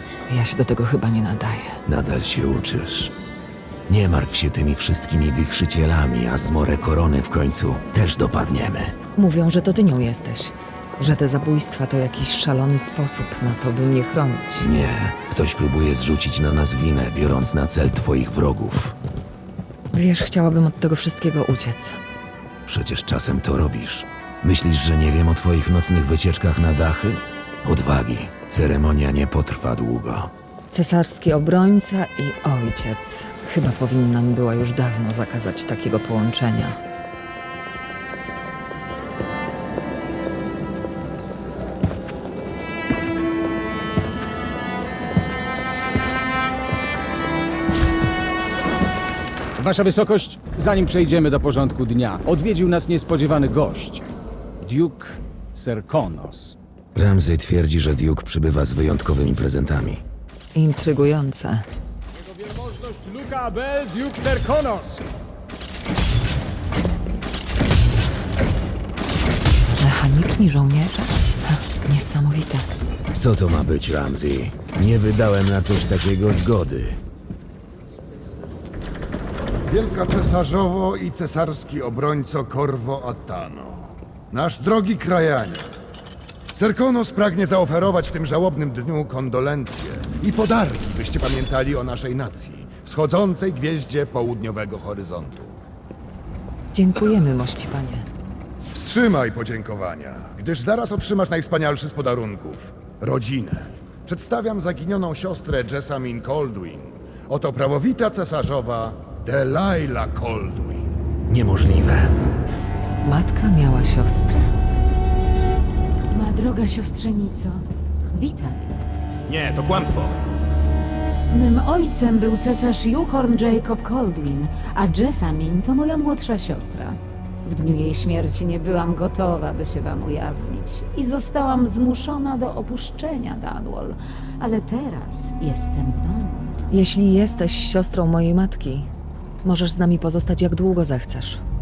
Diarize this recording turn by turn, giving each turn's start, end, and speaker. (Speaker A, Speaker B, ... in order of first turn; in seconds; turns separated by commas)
Speaker A: 0.3-1.8, Speaker B: 1.9-3.1, Speaker B: 3.9-8.9, Speaker A: 9.2-14.7, Speaker B: 14.6-18.9, Speaker A: 19.9-22.0, Speaker B: 22.7-30.3, Speaker A: 30.7-36.8, Speaker C: 49.6-54.0, Speaker C: 54.6-56.5, Speaker B: 57.0-60.0, Speaker A: 60.5-61.7, Speaker C: 62.1-65.0, Speaker A: 69.8-72.7, Speaker B: 73.2-77.0, Speaker D: 79.7-85.7, Speaker D: 86.5-95.6, Speaker A: 96.7-98.1, Speaker D: 98.7-110.9, Speaker B: 111.3-112.2, Speaker A: 113.0-114.5, Speaker E: 116.1-118.8, Speaker B: 119.3-120.2, Speaker E: 121.3-136.5, Speaker A: 136.7-138.9, Speaker A: 139.4-141.4